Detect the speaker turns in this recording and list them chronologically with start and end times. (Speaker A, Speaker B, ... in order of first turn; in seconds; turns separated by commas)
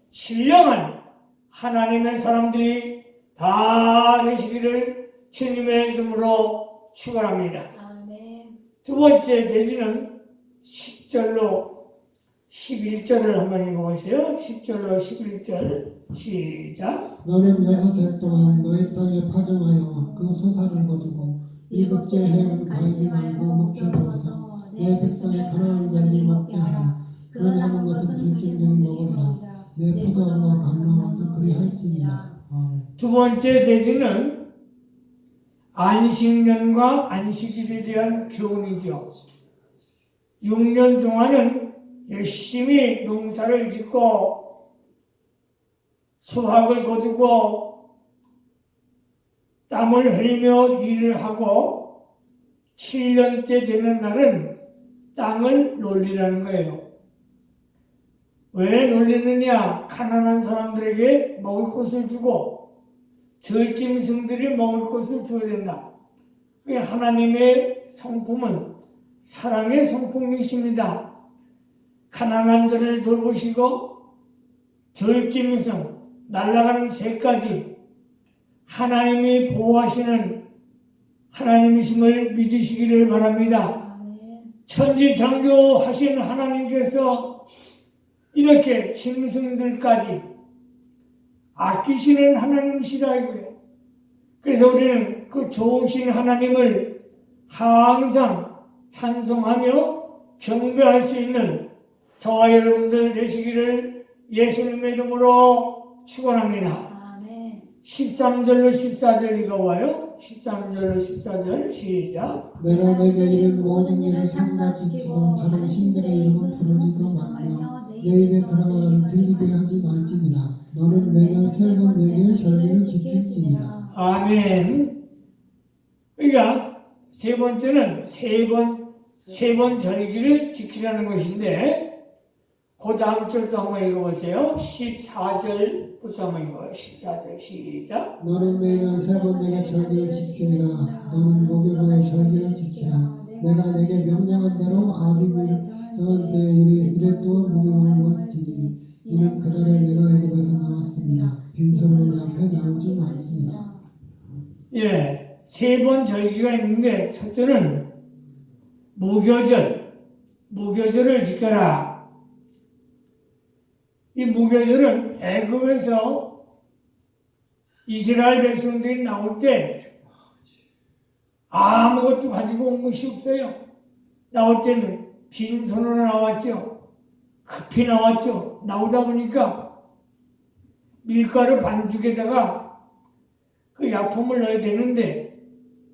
Speaker A: 0.1-0.9, Speaker A: 1.5-7.7, Speaker B: 7.7-8.6, Speaker A: 8.8-10.1, Speaker A: 10.6-11.7, Speaker A: 12.5-17.1, Speaker C: 17.2-32.9, Speaker B: 17.4-32.4, Speaker A: 33.0-34.4, Speaker A: 35.8-39.1, Speaker A: 40.4-44.4, Speaker A: 46.2-47.7, Speaker A: 49.7-51.8, Speaker A: 52.8-54.5, Speaker A: 55.1-56.8, Speaker A: 58.5-62.5, Speaker A: 63.4-65.8, Speaker A: 66.6-68.7, Speaker A: 69.2-71.0, Speaker A: 72.1-73.9, Speaker A: 74.9-77.7, Speaker A: 78.7-80.4, Speaker A: 81.3-83.8, Speaker B: 83.7-84.5, Speaker A: 84.7-87.3, Speaker A: 88.3-90.2, Speaker A: 91.6-93.5, Speaker A: 94.4-96.9, Speaker A: 97.5-101.6, Speaker A: 102.2-106.9, Speaker B: 106.9-107.7, Speaker A: 107.8-112.5, Speaker C: 112.6-123.8, Speaker B: 112.7-120.2, Speaker B: 120.9-124.0, Speaker A: 123.9-124.9, Speaker A: 126.2-131.8, Speaker A: 132.8-138.1, Speaker C: 138.2-153.6, Speaker B: 138.3-153.9, Speaker A: 154.7-157.8, Speaker A: 158.9-159.8, Speaker A: 160.5-161.9, Speaker A: 164.2-166.3, Speaker A: 167.9-169.8, Speaker A: 171.5-173.6, Speaker A: 174.3-176.7, Speaker A: 177.5-179.6, Speaker A: 181.0-182.6, Speaker A: 183.8-185.2